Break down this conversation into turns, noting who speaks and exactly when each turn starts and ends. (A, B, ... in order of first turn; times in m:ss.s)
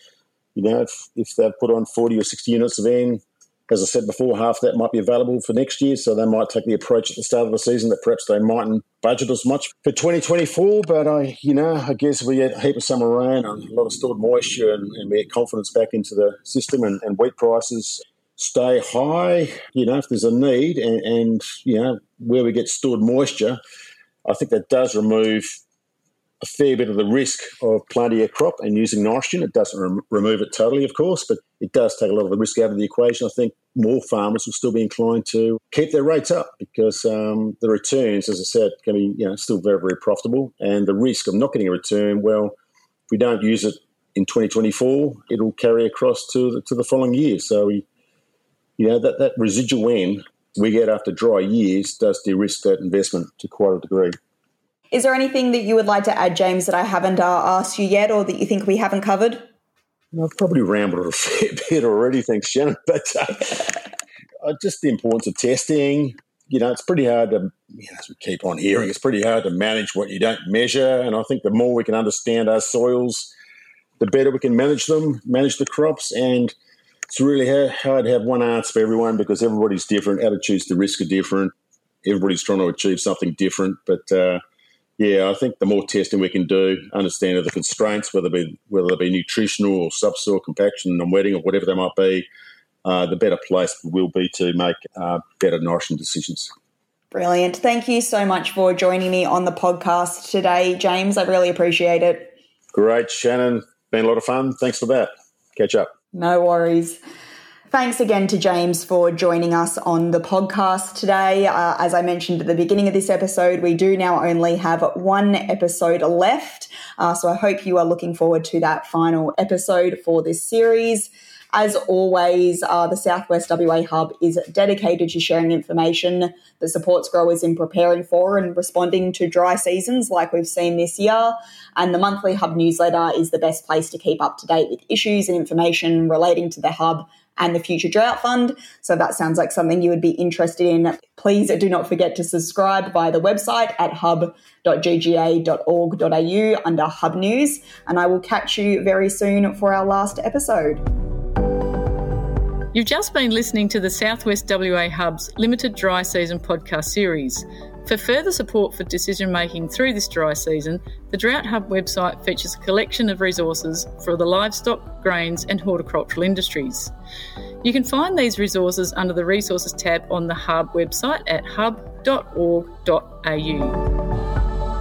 0:00.5-0:23.6 A
0:24.2-0:25.6 A
0:26.4-0:42.5 A
0:43.1-0:47.8 A
0:48.8-0:54.2 A
0:54.9-0:59.4 B
1:00.1-1:03.8 A
1:04.4-1:13.3 A
1:14.0-1:16.5 A
1:17.1-1:21.5 A
1:22.0-1:24.4 A
1:25.0-1:32.2 A
1:32.8-1:36.5 A
1:37.1-1:42.3 B
1:42.7-1:45.9 A
1:46.1-1:47.0 B
1:47.7-2:30.8 B
2:32.7-2:46.9 C
2:47.6-2:53.8 C